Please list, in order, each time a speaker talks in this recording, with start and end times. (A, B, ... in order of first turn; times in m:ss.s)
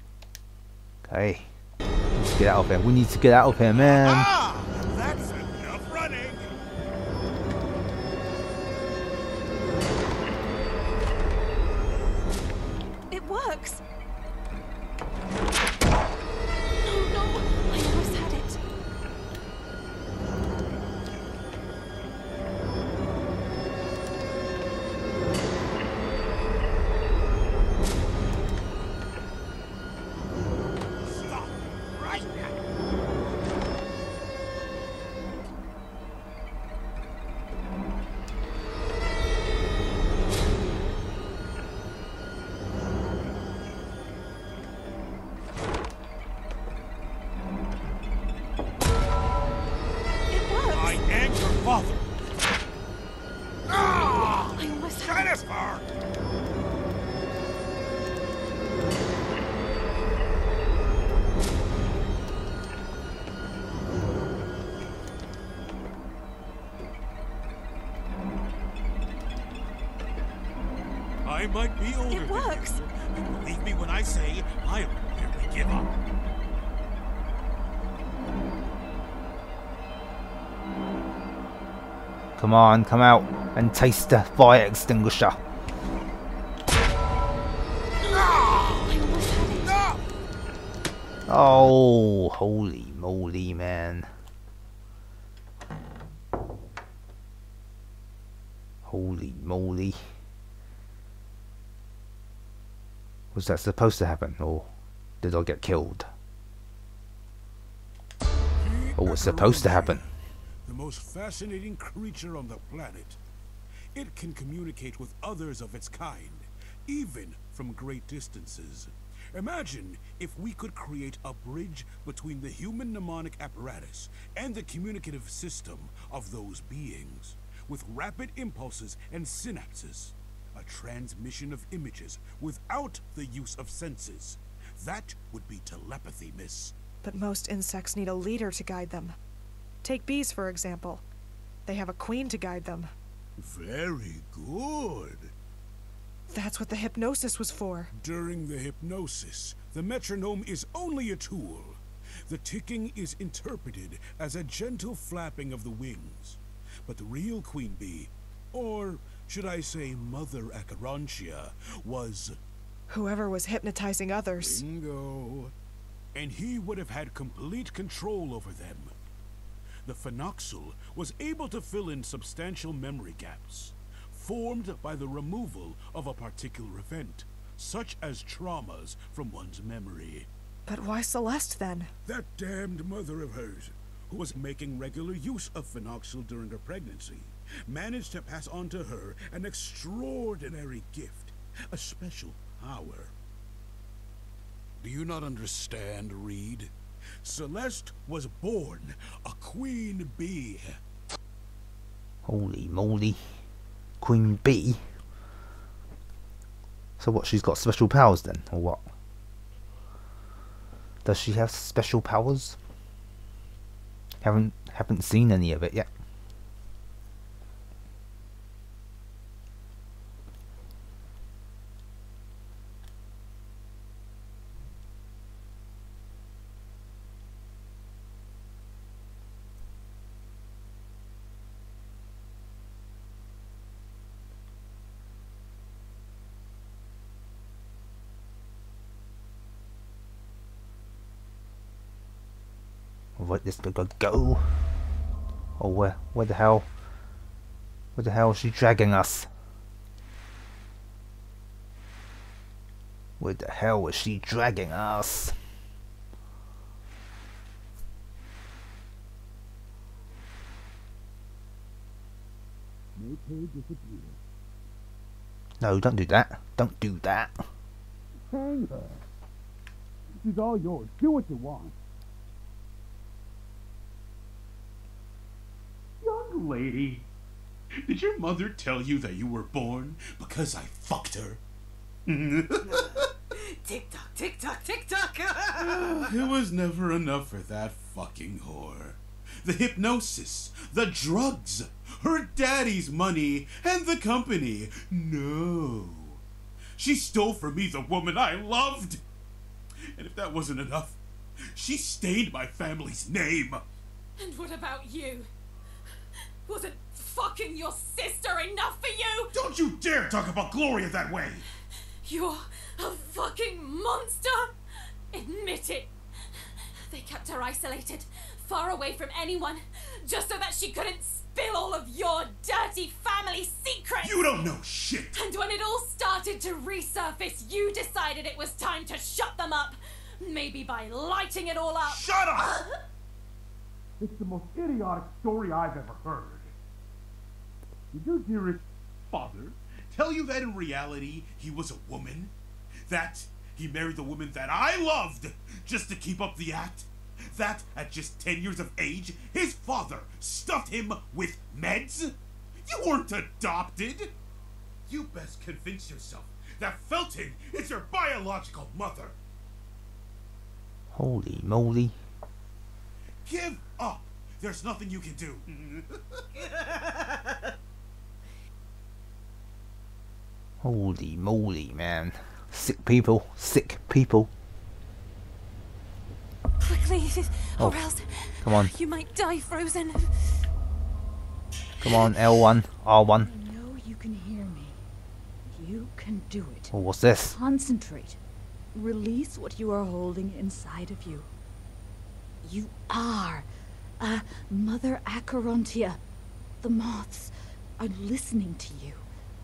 0:01.0-0:01.5 A
0:02.1-0:04.3 A
0:03.8-0:06.6 B
0:13.1-0:13.8 C
0:16.8-0:18.6 C
0:31.0-0:32.6 B
0:50.3-0:51.0 C
0:50.7-0:52.1 B
0:53.7-0:55.9 B
0:53.8-0:55.4 C
1:11.2-1:15.9 B
1:12.1-1:12.8 C
1:22.4-1:25.4 A
1:28.0-1:29.8 C
1:28.1-1:28.9 B
1:29.6-1:30.0 B
1:31.3-1:34.1 A
1:38.8-1:40.1 A
1:43.3-1:44.7 A
1:45.2-1:46.1 A
1:48.6-1:50.1 B
1:49.0-1:50.0 A
1:50.6-1:53.2 B
1:53.9-2:16.7 B
2:17.0-2:19.1 D
2:19.8-2:21.0 D
2:21.6-2:22.9 D
2:23.4-2:25.3 B
2:26.3-2:27.9 D
2:27.9-2:42.4 B
2:42.9-2:44.6 D
2:44.4-2:45.5 B
2:46.1-2:48.9 B
2:49.8-3:00.3 B
3:00.7-3:01.9 D
3:02.0-3:13.1 B
3:14.8-3:16.7 B
3:17.2-3:20.8 B
3:22.2-3:23.3 A
3:24.0-3:24.8 A
3:27.0-3:28.8 A
3:31.0-3:32.6 A
3:34.2-3:35.9 A
4:03.2-4:04.5 A
4:05.6-4:06.7 A
4:07.9-4:09.3 A
4:13.2-4:15.4 A
4:23.0-4:24.2 B
4:25.6-4:27.4 A
4:28.3-4:29.0 B
4:30.1-4:31.8 B
4:36.0-4:37.1 B
4:37.8-4:41.4 B
4:42.1-4:43.0 B
4:42.7-4:46.2 E
4:45.8-4:56.2 B
4:56.8-4:59.0 B
4:59.9-5:01.0 B
5:01.5-5:03.6 B
5:04.2-5:05.3 C
5:06.4-5:09.3 C
5:09.3-5:11.4 B
5:12.0-5:14.6 C
5:15.1-5:15.9 C
5:16.5-5:24.3 C
5:24.0-5:25.2 B
5:25.1-5:32.7 C
5:31.8-5:32.6 B
5:34.0-5:36.5 B
5:37.9-5:42.3 B
5:42.9-5:54.1 B
5:54.9-5:59.2 B
6:00.9-6:02.0 A
6:03.2-6:06.6 B
6:06.8-6:07.2 E
6:10.6-6:14.3 A
6:16.6-6:20.4 C
6:18.4-6:18.7 A
6:21.8-6:23.3 A
6:23.2-6:24.8 F
6:25.5-6:28.2 F
6:26.7-6:27.4 A
6:28.7-6:31.3 F
6:32.4-6:33.5 F
6:34.0-6:36.0 F
6:36.6-6:39.0 F